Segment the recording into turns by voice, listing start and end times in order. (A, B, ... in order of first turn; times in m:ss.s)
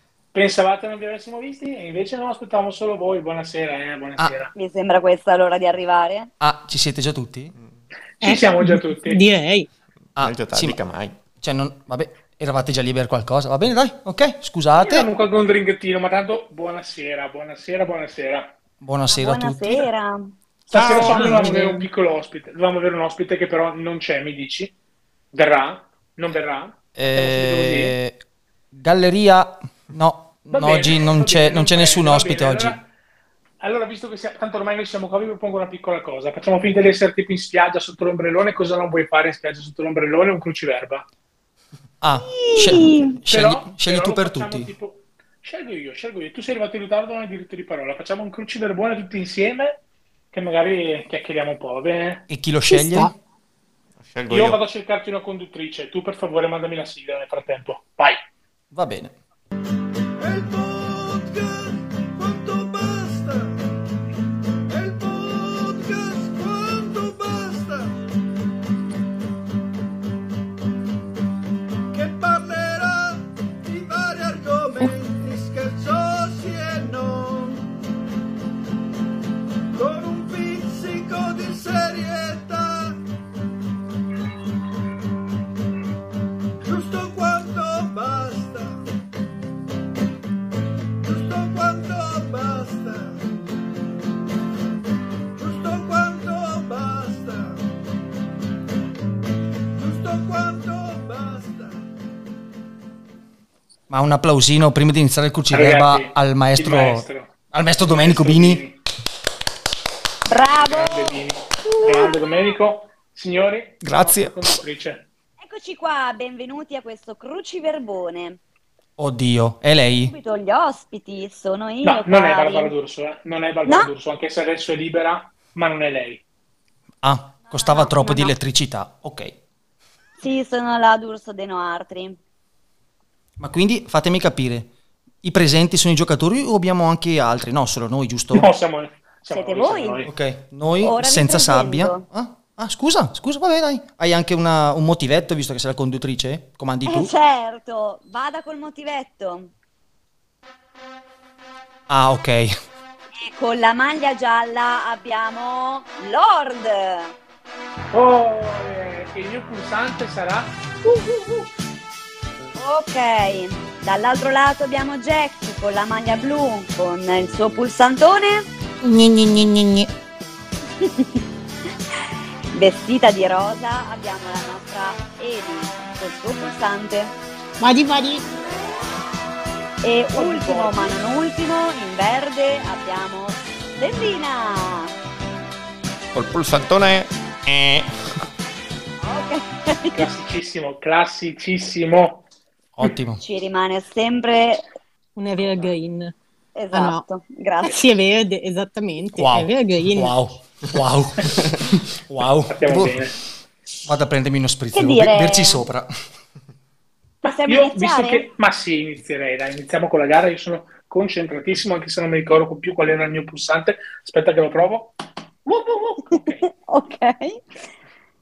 0:00.3-0:04.5 A
0:04.5-0:06.3 B
0:06.4-0:07.5 C
0:08.2-0:09.2 A
0:08.2-0:09.7 D
0:10.1-0:11.2 E
0:10.2-0:10.8 C
0:11.4-0:15.1 C
0:14.8-0:18.6 A
0:18.8-0:19.9 C
0:19.1-0:20.3 B
0:20.7-0:24.7 A
0:20.7-0:21.7 C
0:20.9-0:21.3 B
0:21.3-0:21.6 D
0:25.3-0:28.0 A
0:27.0-0:28.2 C
0:28.7-0:32.8 C
0:30.5-0:32.8 A
0:33.6-0:41.1 A
0:42.0-0:44.7 C
0:42.2-0:43.2 B
0:43.3-0:52.2 A
0:52.3-0:53.1 C
0:52.7-0:53.1 D
0:54.0-0:54.6 E
0:54.3-0:58.2 A
0:58.7-0:59.1 C
1:00.2-1:03.5 F
1:04.7-1:08.0 F
1:11.9-1:17.7 F
1:19.7-1:23.0 F
1:26.6-1:28.8 F
1:31.0-1:33.2 F
1:35.4-1:37.6 F
1:39.8-1:41.8 F
1:43.9-1:48.6 C
1:45.5-1:48.8 A
1:50.3-1:52.5 B
1:50.6-1:55.1 A
1:53.8-1:54.5 C
1:55.4-1:58.4 B
1:59.0-2:00.1 C
2:00.0-2:02.7 B
2:01.8-2:06.2 A
2:07.0-2:09.4 C
2:07.5-2:08.3 B
2:10.2-2:12.2 B
2:13.4-2:14.7 C
2:15.2-2:18.5 C
2:18.3-2:20.1 A
2:19.3-2:20.0 B
2:20.0-2:27.1 C
2:20.8-2:22.0 B
2:26.8-2:29.5 B
2:31.9-2:32.5 C
2:33.1-2:37.1 B
2:37.9-2:40.5 A
2:42.6-2:48.5 B
2:48.8-2:49.6 C
2:49.2-2:49.9 D
2:50.8-2:51.2 B
2:52.5-2:57.1 B
2:57.6-2:58.2 D
2:59.8-3:04.9 B
3:00.1-3:01.0 A
3:06.1-3:07.9 E
3:09.0-3:10.0 B
3:09.9-3:12.2 A
3:12.8-3:13.2 C
3:13.2-3:14.6 B
3:15.2-3:16.1 D
3:16.5-3:17.8 B
3:16.7-3:17.0 D
3:17.6-3:20.2 D
3:19.1-3:21.4 C
3:21.9-3:23.0 C
3:22.5-3:23.2 A
3:23.8-3:25.9 C
3:24.7-3:25.6 B
3:27.2-3:28.2 B
3:27.2-3:36.5 A
3:36.1-3:37.4 B